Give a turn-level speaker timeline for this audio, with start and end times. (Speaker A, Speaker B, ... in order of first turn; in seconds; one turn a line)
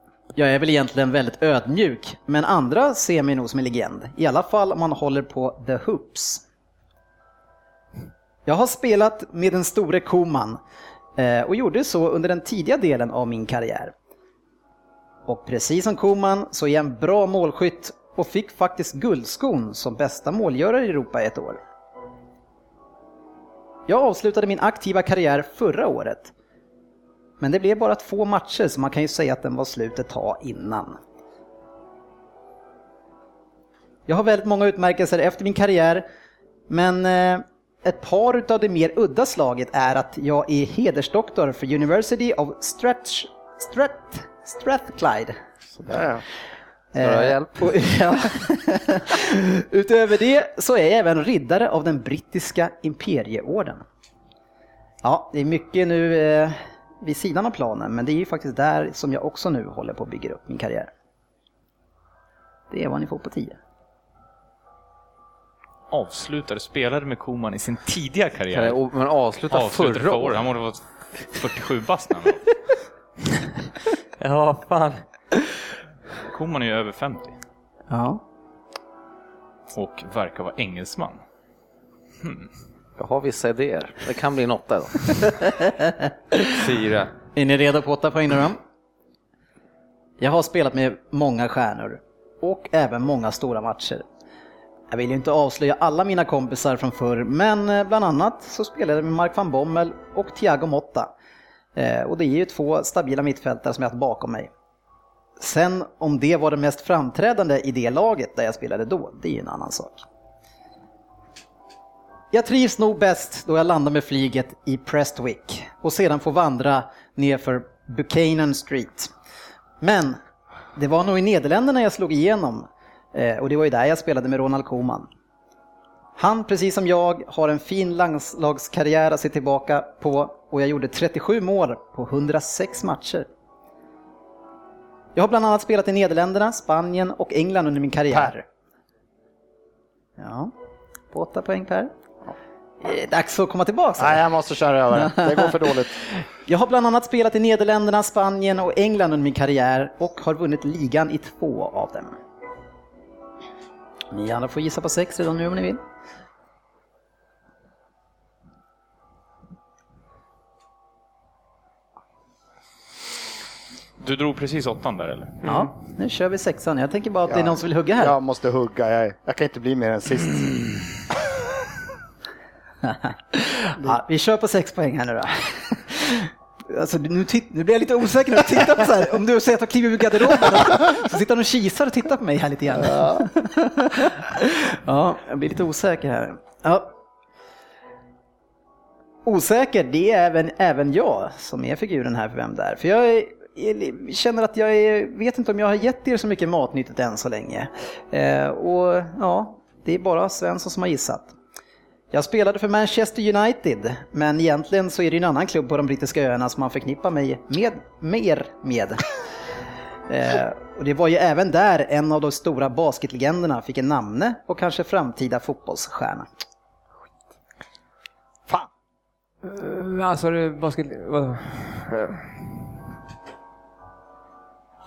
Speaker A: 0.3-6.4
Speaker A: 8.5-10.6
Speaker A: 11.2-13.9
Speaker A: 15.3-21.6
Speaker A: 23.9-26.3
Speaker A: 27.4-31.0
Speaker A: 34.1-36.1
Speaker A: 36.7-45.4
Speaker B: 45.8-46.2
Speaker A: 47.0-53.8
Speaker C: 47.0-47.7
Speaker A: 55.0-60.9
Speaker A: 62.7-63.6
Speaker D: 65.9-68.8
Speaker C: 68.5-70.4
Speaker D: 69.5-72.4
Speaker E: 74.2-75.0
Speaker D: 76.2-77.3
Speaker A: 77.9-78.2
Speaker D: 79.7-81.2
Speaker C: 83.0-85.2
Speaker A: 85.6-85.9
Speaker E: 86.5-87.1
Speaker A: 87.3-88.6
Speaker A: 90.2-94.1
Speaker A: 94.9-101.1
Speaker A: 101.8-104.5
Speaker A: 105.4-110.0
Speaker A: 112.3-119.1
Speaker A: 119.8-120.2
Speaker A: 120.8-125.1
Speaker A: 126.2-133.3
Speaker A: 135.2-138.4
Speaker A: 140.2-140.5
Speaker A: 141.1-141.9
Speaker A: 142.8-144.2
Speaker B: 144.0-146.0
Speaker A: 145.0-145.5
Speaker A: 146.5-152.2
Speaker A: 154.1-155.8
Speaker D: 164.0-165.4
Speaker E: 165.4-165.7
Speaker A: 165.4-168.1
Speaker B: 167.3-170.9
Speaker A: 172.8-186.9
Speaker B: 182.8-183.3
Speaker A: 189.3-201.3
Speaker A: 202.1-209.0
Speaker A: 210.1-216.3
Speaker E: 219.4-222.3